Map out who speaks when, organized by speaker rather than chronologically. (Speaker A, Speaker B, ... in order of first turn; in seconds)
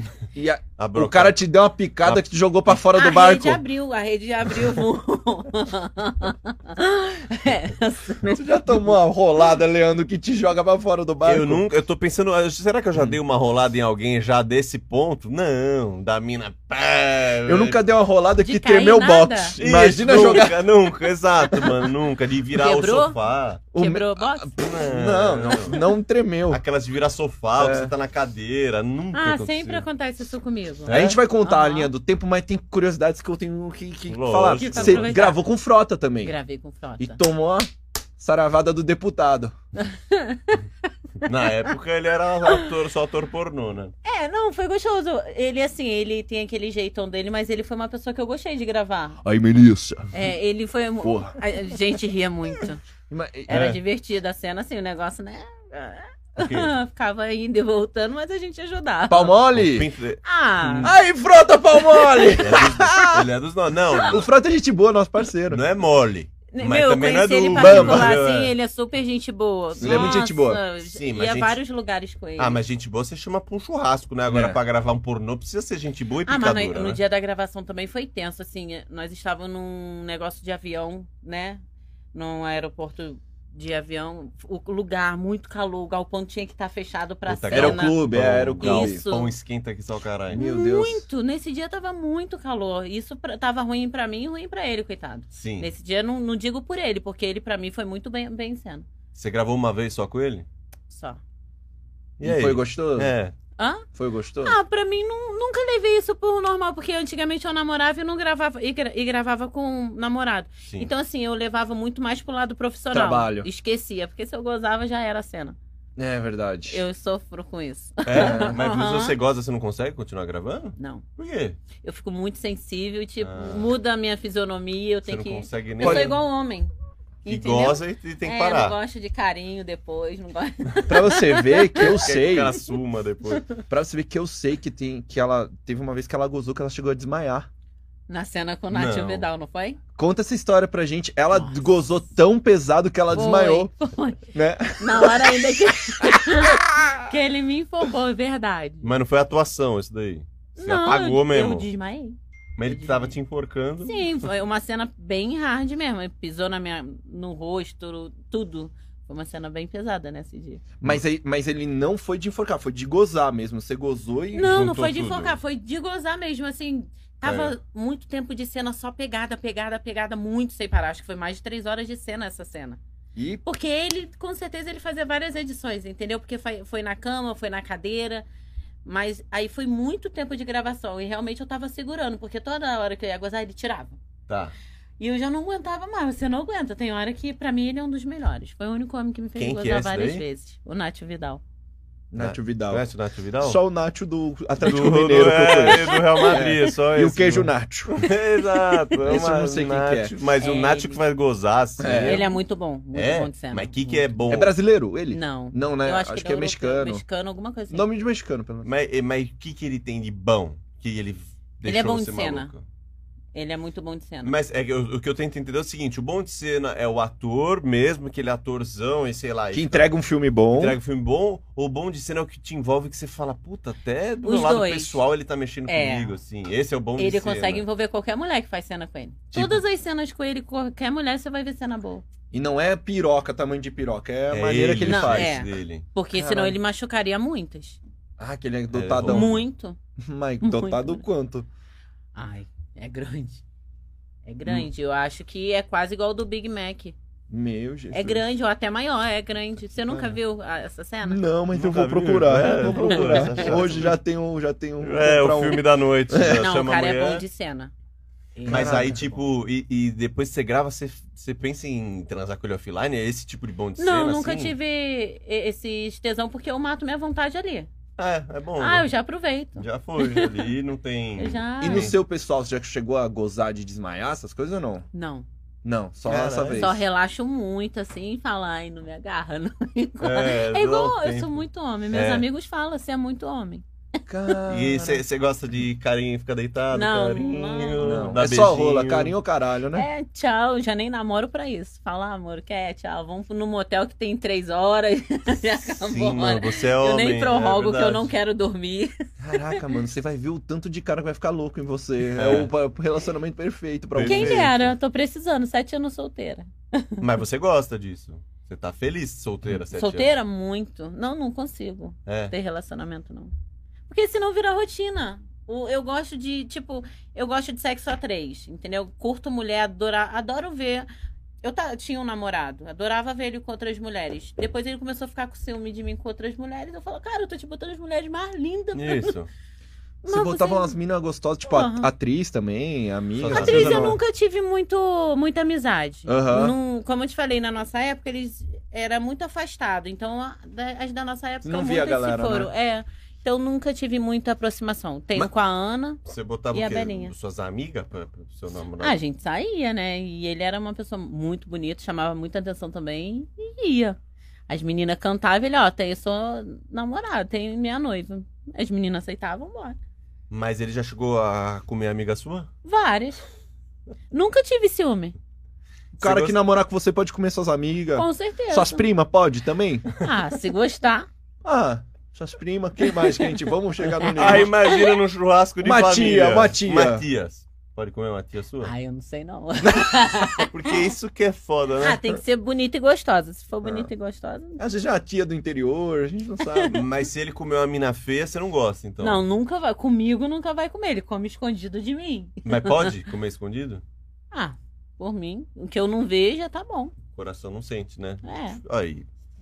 Speaker A: 0.3-3.6, 8.3-11.6, 17.5-20.6, 23.7-26.6, 27.6-27.9, 30.9-36.4, 37.0-39.5, 49.2-50.1, 51.0-51.4, 53.1-53.6, 59.1-59.9, 60.8-63.3, 64.0-65.6, 67.5-68.2, 69.8-70.6, 74.3-74.6, 87.5-89.0, 90.3-91.0, 102.2-103.2, 104.0-104.6, 112.9-113.5, 116.0-116.8, 118.1-118.6, 125.8-126.2, 130.9-132.6, 133.7-137.5, 140.0-143.7, 144.3-145.5, 146.0-147.0, 160.8-164.5, 173.2-173.4, 192.1-192.9, 193.4-198.1, 199.0-200.1, 201.8-202.2, 204.3-207.0, 207.7-208.7, 219.5-220.8, 232.3-235.4, 236.1-236.6, 238.2-239.4, 240.0-241.5, 247.3-248.3, 249.9-250.2, 251.1-256.5, 258.5-259.0, 271.6-274.9, 275.6-276.8, 284.1-285.0, 287.8-289.9, 299.2-304.5, 330.0-334.0, 336.1-336.6, 341.4-342.5, 366.0-369.9, 371.4-374.5, 375.6-377.1, 379.6-380.1, 384.6-386.8
Speaker B: 0.8-1.4, 11.2-17.8, 19.6-23.6, 24.6-25.8, 26.5-29.9, 30.9-31.2, 34.1-35.2, 41.2-43.9, 53.5-53.8, 56.4-56.7, 59.5-60.9, 62.4-64.3, 65.5-68.5, 69.8-70.2, 70.8-71.6, 72.4-77.0, 87.3-90.4, 95.3-95.7, 99.2-100.5, 102.2-103.3, 118.1-121.6, 123.2-123.7, 125.1-126.2, 127.3-128.8, 131.8-133.5, 138.7-139.3, 148.8-151.7, 152.6-154.2, 164.4-165.4, 167.2-167.6, 184.3-184.5, 189.4-190.2, 192.2-193.6, 194.6-202.3, 202.9-204.5, 208.6-212.6, 214.2-219.9, 220.5-227.6, 229.3-229.6, 234.3-235.9, 238.7-239.4, 251.5-254.0, 254.8-257.2, 258.5-264.6, 268.0-268.9, 269.6-271.9, 276.1-276.8, 280.0-281.4, 281.9-282.2, 284.5-289.1, 295.8-298.1, 302.2-302.5, 303.9-304.7, 307.0-310.2, 312.1-312.3, 328.8-329.3, 333.2-334.0, 346.1-349.0, 360.3-362.5, 366.0-366.4, 374.1-378.7, 380.4-382.1, 386.7-389.2, 392.4-393.8, 397.1-399.1
Speaker C: 2.9-8.9, 18.4-19.6, 22.6-23.2, 23.7-24.5, 29.1-31.9, 34.6-35.4, 36.2-37.2, 39.8-40.6, 44.0-49.2, 50.1-52.8, 53.5-59.4, 60.2-60.9, 62.0-62.4, 66.5-72.6, 76.3-81.6, 82.1-89.3, 90.3-98.9, 100.9-101.2, 103.6-103.8, 104.4-115.6, 116.7-119.2, 120.8-121.0, 121.8-126.7, 127.2-132.0, 138.1-139.8, 141.3-141.6, 143.1-144.3, 144.8-148.9, 150.6-153.2, 153.8-160.6, 164.3-172.8, 173.4-178.2, 178.8-184.0, 185.0-191.4, 195.7-196.4, 200.4-201.0, 202.0-204.1, 205.1-207.9, 211.6-212.5, 213.3-214.3, 224.2-225.0, 225.7-226.2, 227.0-232.1, 234.8-237.8, 239.1-239.8, 240.4-241.0, 242.2-243.4, 244.3-246.9, 247.9-251.2, 252.7-253.6, 256.3-257.7, 258.4-259.2, 263.8-267.7, 268.6-270.4, 271.2-271.9, 274.9-275.3, 276.6-283.6, 286.7-288.2, 289.7-299.6, 304.0-307.0, 309.7-313.3, 313.9-320.9, 321.4-329.1, 330.1-330.8, 331.5-331.9, 333.3-347.1, 348.8-354.0, 354.5-359.8, 362.6-363.2, 364.1-365.1, 368.0-368.8, 370.0-371.1, 372.9-373.3, 373.9-374.9, 378.6-380.7, 381.8-384.6, 386.4-386.8, 389.0-392.9, 394.3-396.9, 398.2-398.6